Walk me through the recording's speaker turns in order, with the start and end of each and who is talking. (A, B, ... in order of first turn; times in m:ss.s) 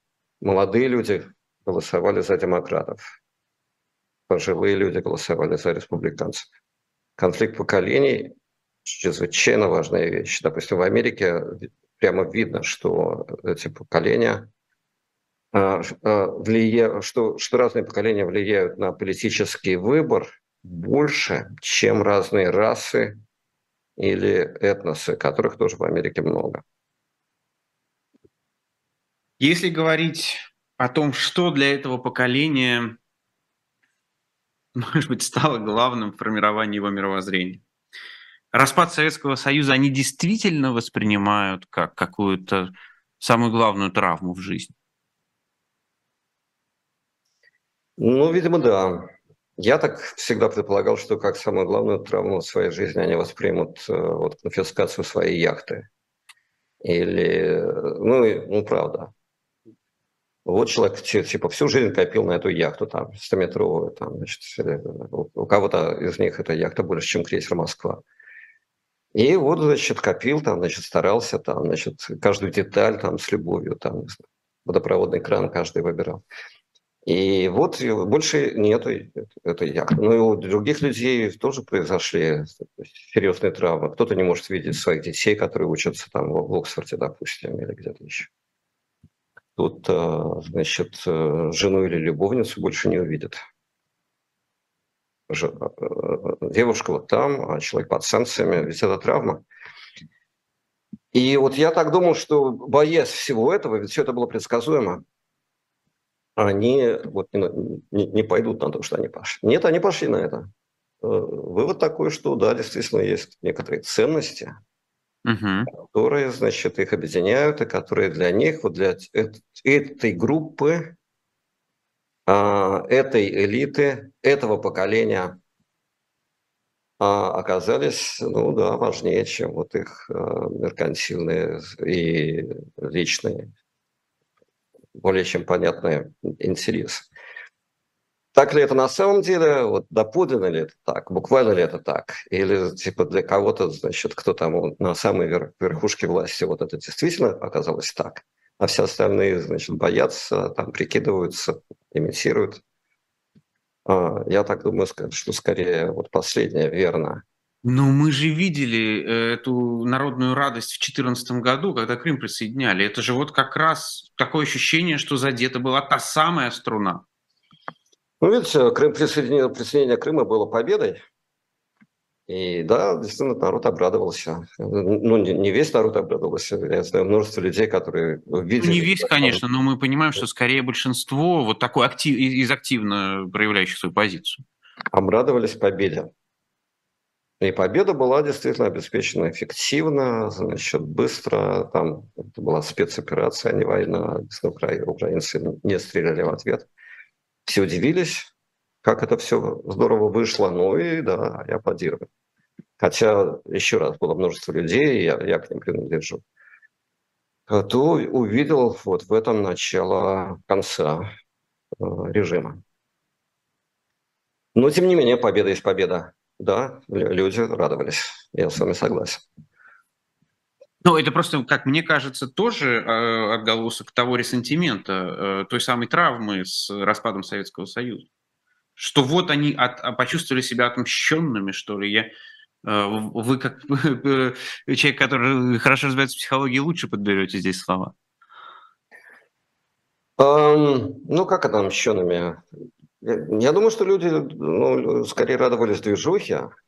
0:00.4-0:03.0 A
0:04.3-0:06.5 A
0:07.2-0:08.3 A
0:08.8-0:14.5 A
0:15.5-0:23.2 A
0:24.0-0:26.6 A
0:29.4-0:33.0 B
0:34.8-0:37.6 B
0:38.5-0:44.8 B
0:48.0-0:55.9 A
0:56.8-0:59.1 A
1:00.5-1:08.0 A
1:09.1-1:16.2 A
1:17.1-1:28.3 A
1:29.6-1:33.4 A
1:35.3-1:39.4 A
1:41.1-1:45.0 A
1:46.4-1:50.5 A
1:51.0-1:54.6 A
1:55.2-1:55.7 B
1:55.7-2:01.0 A
2:02.3-2:05.4 A
2:07.0-2:13.5 A
2:15.0-2:17.1 A
2:18.3-2:32.6 A
2:33.9-2:37.2 A
2:37.6-2:47.0 B
2:48.2-2:51.0 A
2:52.3-2:59.4 A
2:58.6-3:04.4 B
3:04.9-3:06.1 A
3:07.4-3:16.7 A
3:17.5-3:18.3 A
3:18.8-3:22.1 A
3:22.8-3:26.2 A
3:27.5-3:31.1 A
3:31.8-3:32.6 A
3:34.6-3:39.2 A
3:40.8-3:48.1 B
3:48.8-3:52.1 B
3:52.6-3:58.0 B
4:00.2-4:02.4 A
4:03.0-4:06.5 A